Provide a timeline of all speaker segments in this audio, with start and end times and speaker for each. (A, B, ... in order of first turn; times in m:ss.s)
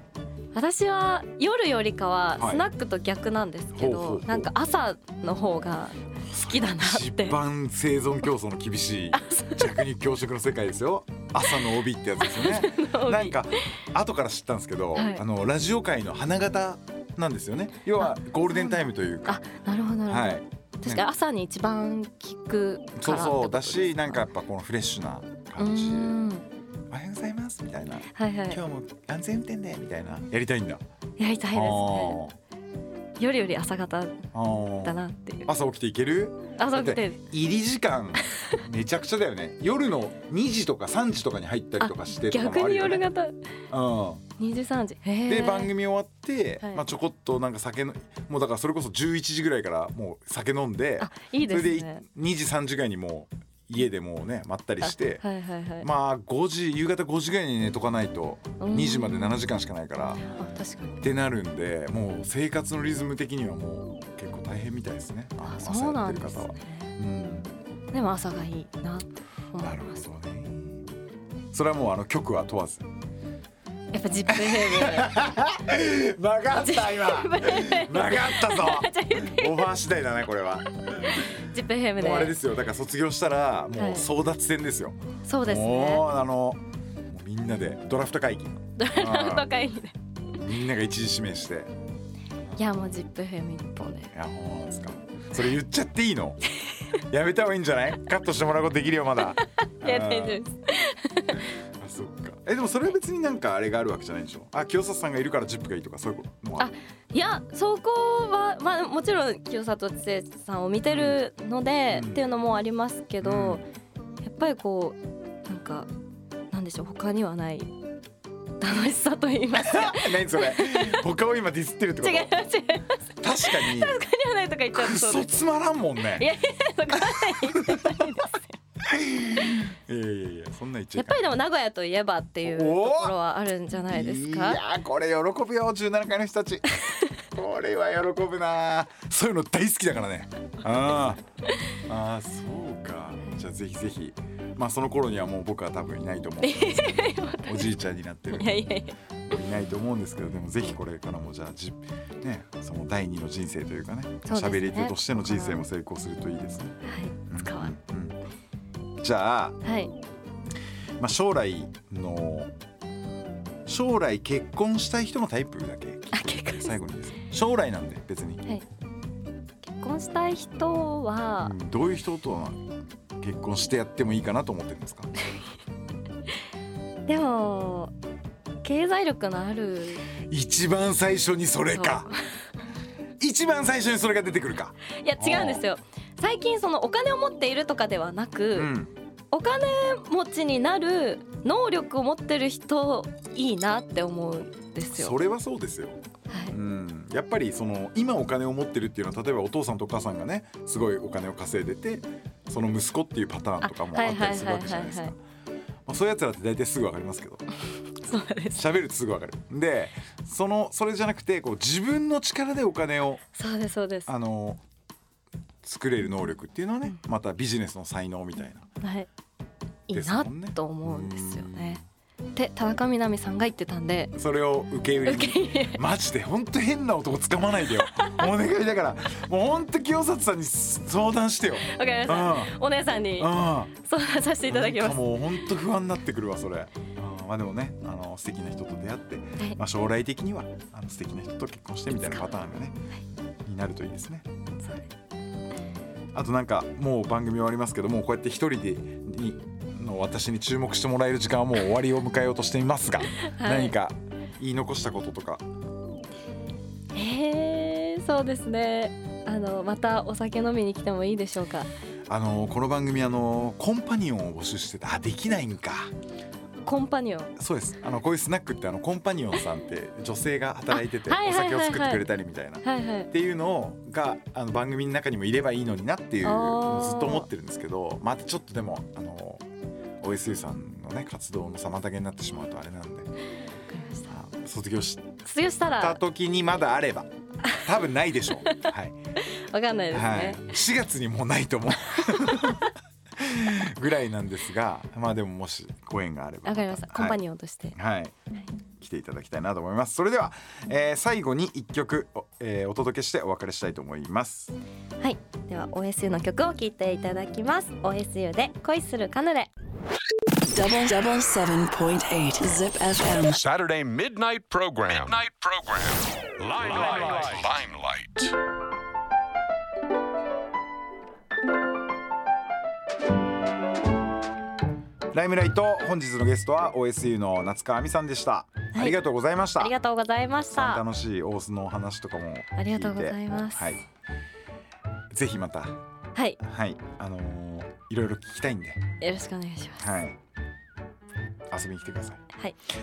0:00.5-0:07.4 A
0:02.4-0:02.6 B
0:03.7-0:04.5 B
0:06.3-0:19.4 B
0:09.1-0:09.7 A
0:12.2-0:13.4 A
0:15.0-0:15.2 A
0:18.0-0:24.3 A
0:20.0-0:21.0 B
0:23.0-0:26.2 B
0:25.6-0:26.4 A
0:26.9-0:30.8 B
0:28.1-0:28.6 A
0:31.2-0:32.2 A
0:31.5-0:32.4 B
0:33.2-0:34.2 A
0:34.3-0:43.1 B
0:34.8-0:35.5 A
0:36.6-0:37.2 A
0:41.8-0:43.3 A
0:43.7-0:44.3 B
0:44.4-0:45.7 A
0:45.2-0:55.2 B
0:51.0-0:52.0 A
0:54.8-0:55.9 A
0:55.8-1:00.2 B
0:58.6-0:59.4 A
1:00.2-1:01.0 A
1:01.0-1:07.5 B
1:05.4-1:06.9 A
1:07.9-1:10.0 A
1:09.6-1:10.8 B
1:11.5-1:12.9 B
1:13.9-1:15.2 A
1:14.3-1:29.5 B
1:16.6-1:19.7 A
1:20.9-1:22.4 A
1:23.8-1:24.0 A
1:25.2-1:26.1 A
1:28.8-1:29.9 A
1:30.3-1:31.7 B
1:32.6-1:34.1 A
1:34.1-1:36.4 B
1:37.1-1:40.4 B
1:39.4-1:41.5 A
1:41.4-1:46.7 B
1:46.6-1:53.6 A
1:50.9-1:51.2 B
1:51.9-1:52.2 B
1:53.2-1:53.6 B
1:54.2-1:55.9 A
1:56.5-1:57.7 A
1:58.6-2:01.0 A
1:59.5-2:02.3 B
2:02.0-2:05.4 A
2:03.2-2:04.0 B
2:04.7-2:06.3 B
2:06.2-2:08.5 A
2:07.0-2:08.0 B
2:08.8-2:11.2 B
2:11.0-2:14.6 A
2:12.4-2:13.2 B
2:13.9-2:16.6 B
2:17.3-2:21.2 B
2:21.8-2:28.6 B
2:26.4-2:27.7 A
2:28.3-2:28.9 A
2:29.3-2:38.2 B
2:34.2-2:35.6 A
2:36.8-2:37.7 A
2:39.0-2:39.6 B
2:39.6-2:39.9 A
2:41.0-2:42.5 B
2:43.6-2:48.4 B
2:46.1-2:46.7 A
2:49.6-2:51.5 A
2:51.4-2:52.6 B
2:53.2-2:55.1 B
2:57.1-2:57.9 A
2:58.6-3:00.0 A
3:00.3-3:02.1 B
3:01.7-3:02.1 A
3:03.2-3:05.6 B
3:05.0-3:08.7 A
3:08.5-3:08.9 B
3:09.3-3:15.2 A
3:14.9-3:16.0 B
3:16.3-3:16.6 A
3:16.5-3:25.2 B
3:23.6-3:25.1 A
3:25.8-3:27.4 B
3:28.0-3:28.6 A
3:28.5-3:33.2 B
3:33.3-3:34.1 A
3:34.1-3:34.6 B
3:35.6-3:38.7 B
3:38.8-3:39.1 A
3:39.9-3:41.8 A
3:39.9-3:41.8 B
3:42.3-3:44.1 A
3:44.1-3:52.6 B
3:45.0-3:45.8 A
3:48.0-3:48.2 A
3:51.6-3:55.5 A
3:53.2-3:53.7 B
3:54.4-4:02.8 B
4:01.9-4:02.3 A
4:03.4-4:04.3 B
4:06.1-4:15.4 B
4:13.2-4:13.7 A
4:16.9-4:21.7 A
4:22.1-4:25.9 B
4:26.6-4:27.3 A
4:27.4-4:39.5 B
4:30.7-4:32.1 A
4:32.6-4:33.1 A
4:36.2-4:37.3 A
4:40.0-4:43.1 B
4:43.7-4:44.1 A
4:44.1-4:45.1 B
4:45.2-4:46.0 A
4:45.8-4:49.0 B
4:49.3-4:50.4 A
4:49.9-4:57.2 B
4:52.3-4:52.6 A
4:56.4-4:57.8 A
4:57.7-4:58.1 B
4:58.8-5:04.5 B
5:05.0-5:09.5 A
5:10.5-5:13.4 C
5:13.3-5:18.3 D
5:25.1-5:29.7 B
5:28.7-5:29.0 A
5:29.6-5:30.8 A
5:30.4-5:33.8 B
5:32.6-5:33.8 A
5:35.1-5:35.8 B
5:36.4-5:38.8 B
5:39.0-5:39.8 A
5:39.8-5:40.2 B
5:41.5-5:42.2 B